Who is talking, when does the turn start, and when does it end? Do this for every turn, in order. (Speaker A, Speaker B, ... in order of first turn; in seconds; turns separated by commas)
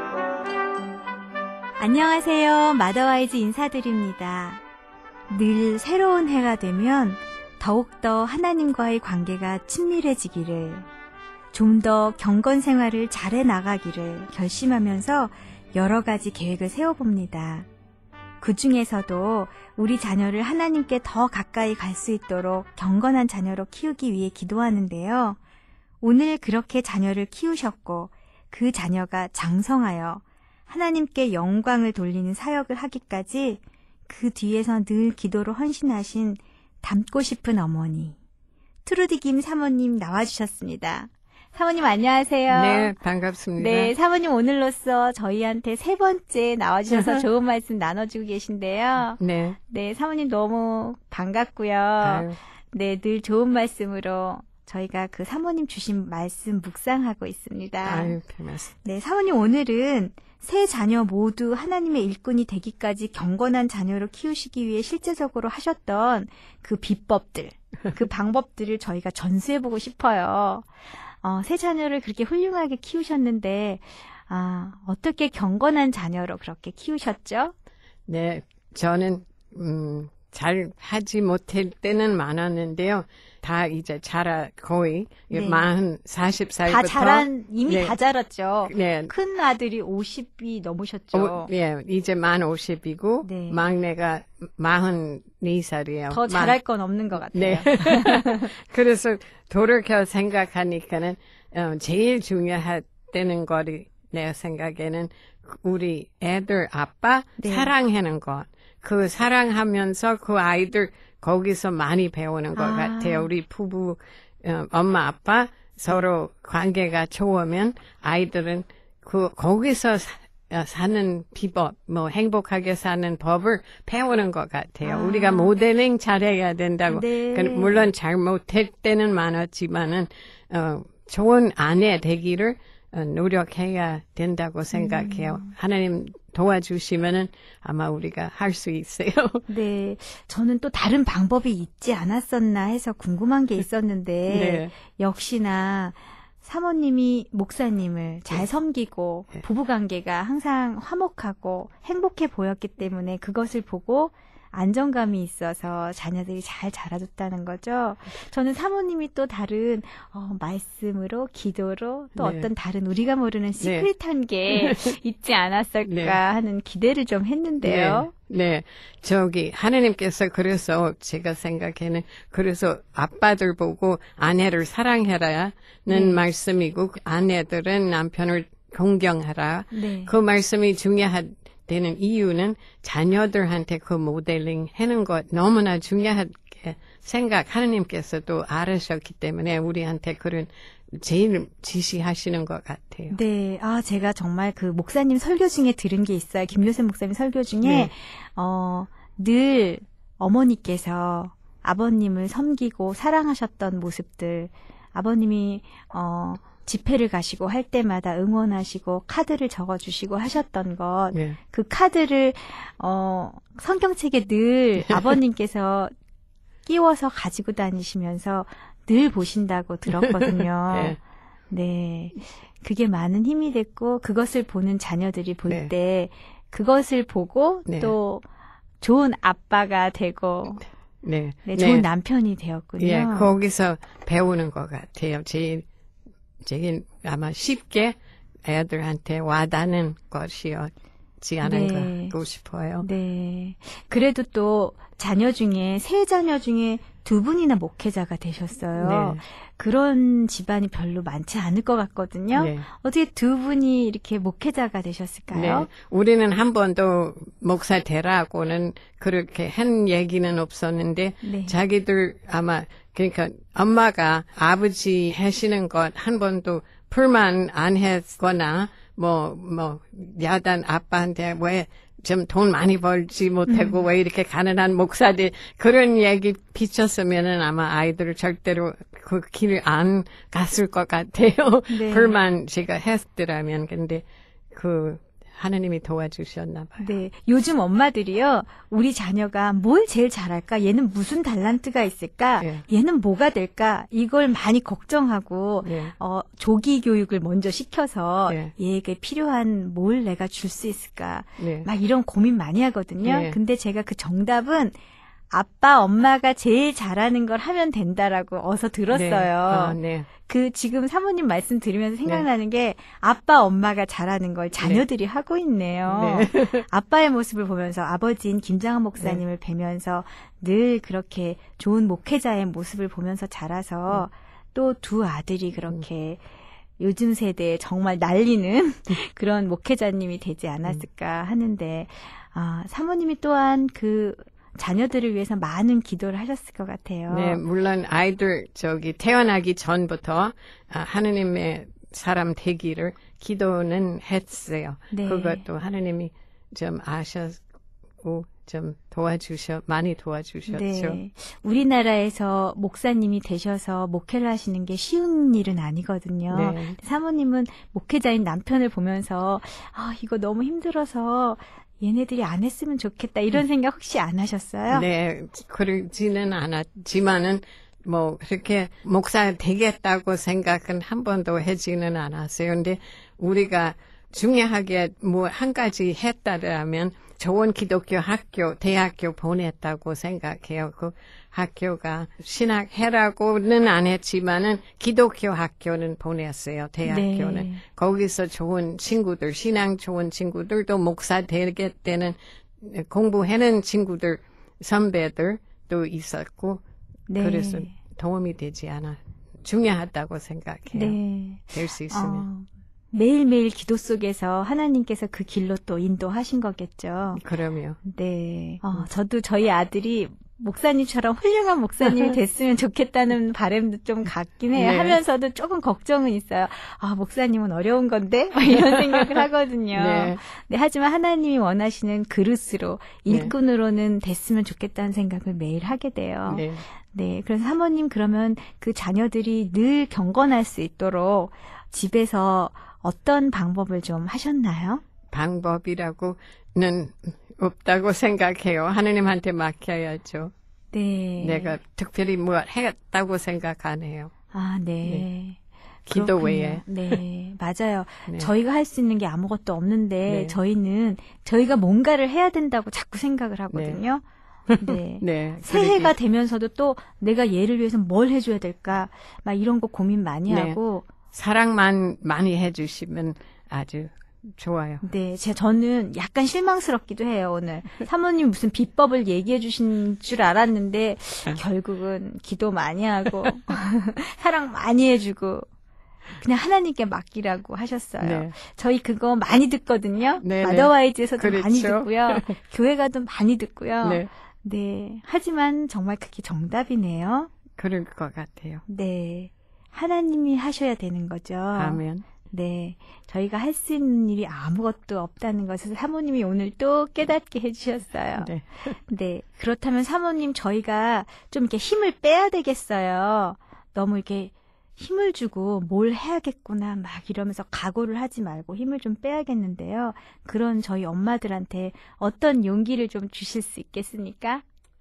Speaker A: 1.8-4.6, Speaker A: 5.3-10.9, Speaker A: 11.5-17.7, Speaker A: 18.4-25.4, Speaker A: 26.0-38.2, Speaker A: 38.8-42.9, Speaker B: 42.5-43.9, Speaker A: 43.6-58.1, Speaker B: 49.2-49.6, Speaker B: 52.0-52.4, Speaker B: 57.8-58.7, Speaker A: 58.8-70.7, Speaker A: 71.2-77.5, Speaker B: 78.1-87.9, Speaker A: 85.3-85.7, Speaker A: 86.6-91.5, Speaker B: 88.7-89.1, Speaker B: 91.1-96.5, Speaker A: 93.2-93.6, Speaker A: 96.1-98.5, Speaker B: 97.3-139.4, Speaker A: 107.4-107.7, Speaker A: 112.5-113.3, Speaker A: 124.8-125.5, Speaker A: 126.9-127.9, Speaker A: 134.7-135.5, Speaker A: 139.5-168.1, Speaker B: 144.3-144.7, Speaker B: 162.2-162.5, Speaker B: 163.6-163.9, Speaker B: 164.5-165.0, Speaker B: 165.8-166.2, Speaker B: 167.6-193.2, Speaker A: 175.9-176.2, Speaker A: 179.7-180.1, Speaker A: 193.1-215.9, Speaker B: 197.6-197.9, Speaker A: 216.7-221.0, Speaker B: 219.9-220.1, Speaker B: 220.7-221.0, Speaker A: 221.5-228.2, Speaker B: 227.7-227.9, Speaker A: 228.8-230.7, Speaker B: 231.0-231.8, Speaker A: 231.4-233.3, Speaker B: 232.8-235.6, Speaker B: 236.4-242.9, Speaker A: 241.4-242.2, Speaker A: 242.8-255.7, Speaker B: 248.8-249.2, Speaker B: 252.3-252.7, Speaker B: 255.3-286.9, Speaker A: 261.2-261.6, Speaker A: 273.5-273.8, Speaker A: 281.7-282.1, Speaker A: 286.8-304.8, Speaker B: 295.6-295.9, Speaker B: 301.4-301.7, Speaker B: 303.0-303.4, Speaker A: 305.3-326.2, Speaker B: 308.9-310.1, Speaker B: 315.9-316.6, Speaker A: 326.8-337.4, Speaker B: 337.1-347.4, Speaker A: 344.9-345.4, Speaker B: 348.0-351.0, Speaker A: 350.5-364.8, Speaker B: 356.3-356.8, Speaker B: 364.7-396.6, Speaker A: 386.9-387.6, Speaker A: 397.1-397.7, Speaker B: 397.2-401.0, Speaker A: 400.7-407.2, Speaker B: 401.5-402.3, Speaker B: 407.1-407.8, Speaker A: 407.8-434.8, Speaker B: 414.5-415.0, Speaker B: 418.6-420.2, Speaker B: 423.1-423.3, Speaker B: 426.3-426.6, Speaker B: 435.1-440.3, Speaker A: 440.7-441.5, Speaker B: 441.2-444.1, Speaker A: 444.3-454.0, Speaker B: 445.9-447.0, Speaker B: 450.1-450.4, Speaker B: 453.5-453.8, Speaker B: 454.5-455.9, Speaker A: 454.6-460.9, Speaker B: 460.3-460.6, Speaker B: 461.1-464.8, Speaker A: 464.8-475.4, Speaker A: 476.1-487.3, Speaker B: 478.0-478.3, Speaker B: 480.2-482.3, Speaker B: 483.8-484.1, Speaker B: 487.6-488.6, Speaker A: 488.7-498.3, Speaker B: 491.5-492.1, Speaker B: 498.2-498.7, Speaker A: 498.9-514.4